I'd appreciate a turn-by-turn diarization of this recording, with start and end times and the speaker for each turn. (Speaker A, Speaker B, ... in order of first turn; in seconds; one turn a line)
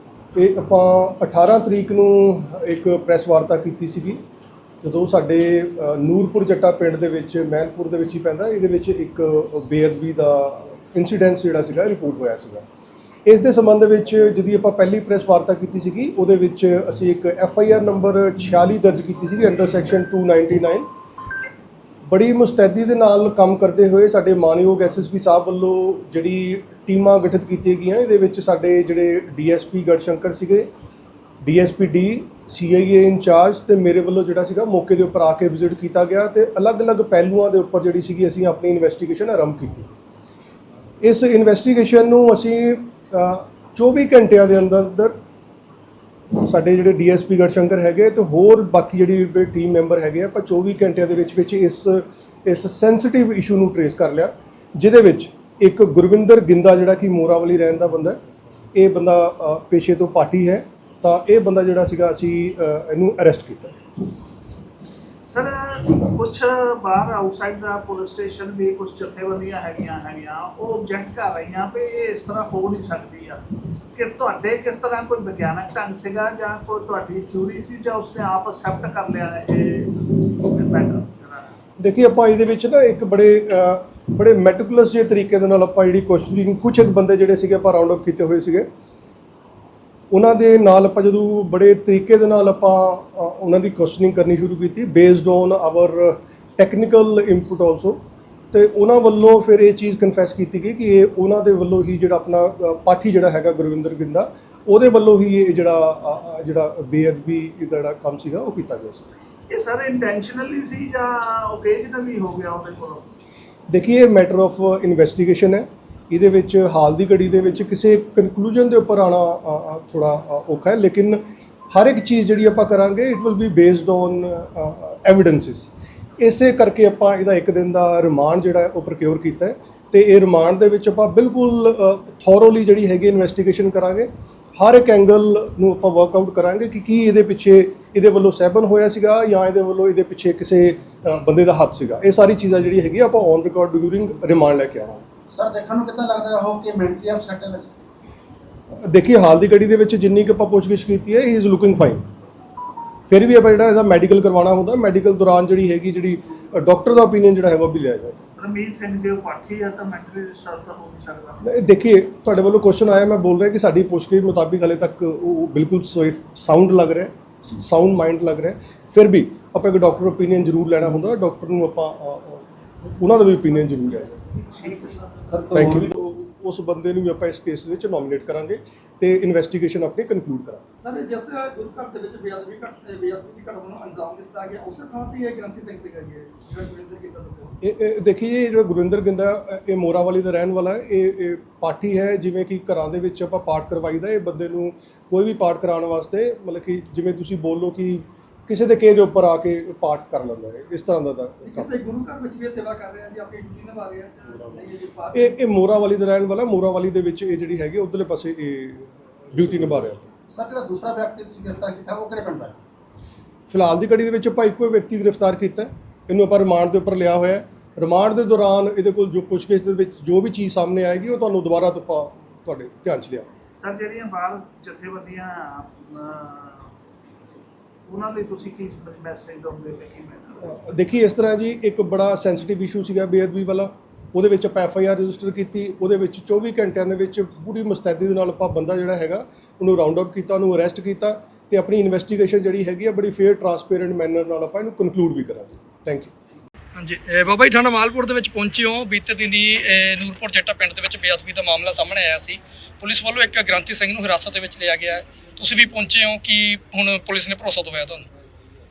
Speaker A: 0.3-4.2
Speaker A: 4.8-12.7
Speaker A: 13.3-20.9
Speaker A: 22.1-30.7
Speaker A: 31.4-39.9
Speaker A: 41.0-45.1
Speaker A: 46.4-58.2
Speaker A: 58.7-63.8
Speaker B: 65.3-73.4
Speaker B: 73.9-81.5
Speaker A: 81.8-88.7
Speaker A: 90.1-98.0
Speaker A: 98.5-109.1
Speaker B: 109.5-113.1
Speaker A: 113.7-145.1
Speaker C: 145.3-147.7
Speaker A: 148.8-152.0
Speaker A: 153.1-158.2
Speaker B: 158.4-161.4
Speaker A: 161.4-174.2
Speaker B: 174.5-175.2
Speaker A: 175.5-180.6
Speaker D: 180.8-187.5
Speaker A: 187.6-201.7
Speaker D: 201.4-205.4
Speaker A: 205.1-210.1
Speaker C: 210.3-212.6
Speaker A: 213.5-223.3
Speaker B: 223.6-226.7
Speaker B: 227.9-230.6
Speaker A: 230.4-246.1
Speaker E: 246.8-258.1